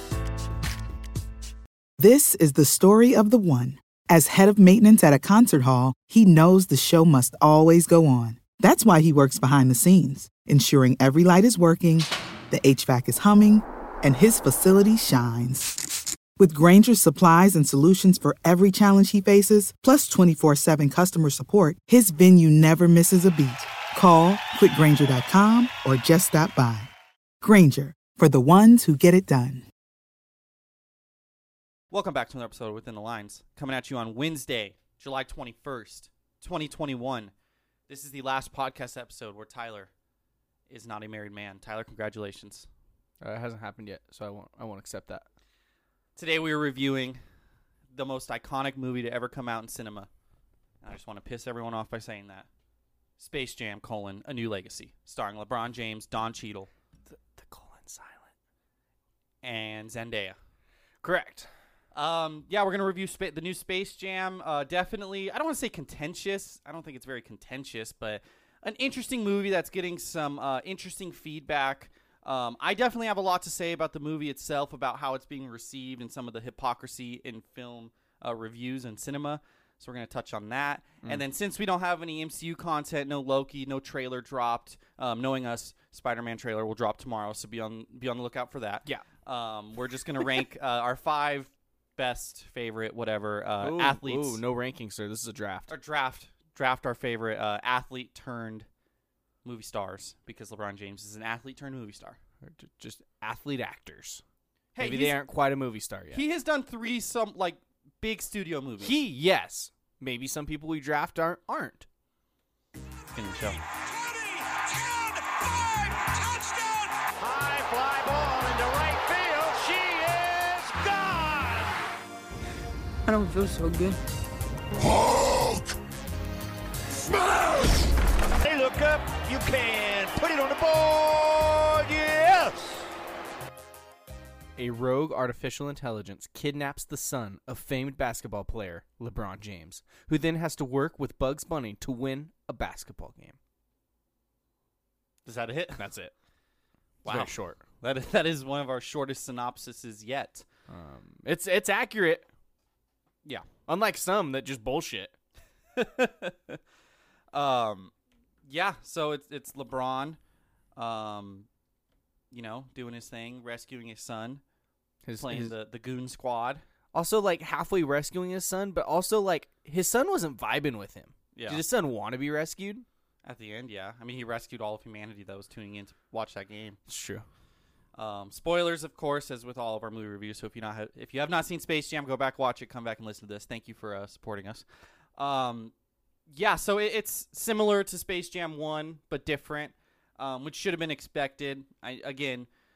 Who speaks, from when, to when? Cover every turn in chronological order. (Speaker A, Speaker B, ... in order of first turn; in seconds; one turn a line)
Speaker A: 2.0-15.8
Speaker A: 16.4-26.9
Speaker A: 27.4-29.6
Speaker B: 31.9-37.3
Speaker B: 37.9-39.9
Speaker B: 40.7-42.7
Speaker C: 43.2-45.3
Speaker B: 46.1-47.2
Speaker B: 47.9-50.1
Speaker B: 50.8-52.5
Speaker B: 53.2-56.7
Speaker C: 57.1-58.3
Speaker B: 59.4-60.4
Speaker C: 61.0-61.5
Speaker B: 61.9-94.4
Speaker C: 93.6-95.7
Speaker B: 95.7-98.7
Speaker B: 99.4-102.2
Speaker C: 102.4-104.2
Speaker B: 104.7-105.2
Speaker C: 104.8-106.2
Speaker B: 106.1-108.9
Speaker C: 108.8-111.8
Speaker B: 113.1-113.6
Speaker C: 114.7-116.7
Speaker D: 117.0-121.8
Speaker E: 123.0-124.0
Speaker E: 125.0-125.5
Speaker E: 127.2-127.8
Speaker D: 128.4-132.6
Speaker C: 134.6-143.3
Speaker B: 145.2-145.8
Speaker C: 145.8-146.1
Speaker B: 147.0-150.4
Speaker C: 147.0-147.6
Speaker C: 150.7-152.3
Speaker C: 153.7-155.1
Speaker B: 155.8-156.6
Speaker B: 157.3-157.9
Speaker B: 158.4-160.2
Speaker B: 160.8-161.5
Speaker B: 162.3-164.4
Speaker C: 165.0-165.5
Speaker B: 165.2-166.6
Speaker C: 166.9-172.8
Speaker B: 171.3-171.6
Speaker B: 173.2-176.8
Speaker C: 176.9-177.2
Speaker B: 177.9-184.6
Speaker B: 185.2-185.7
Speaker B: 186.3-192.5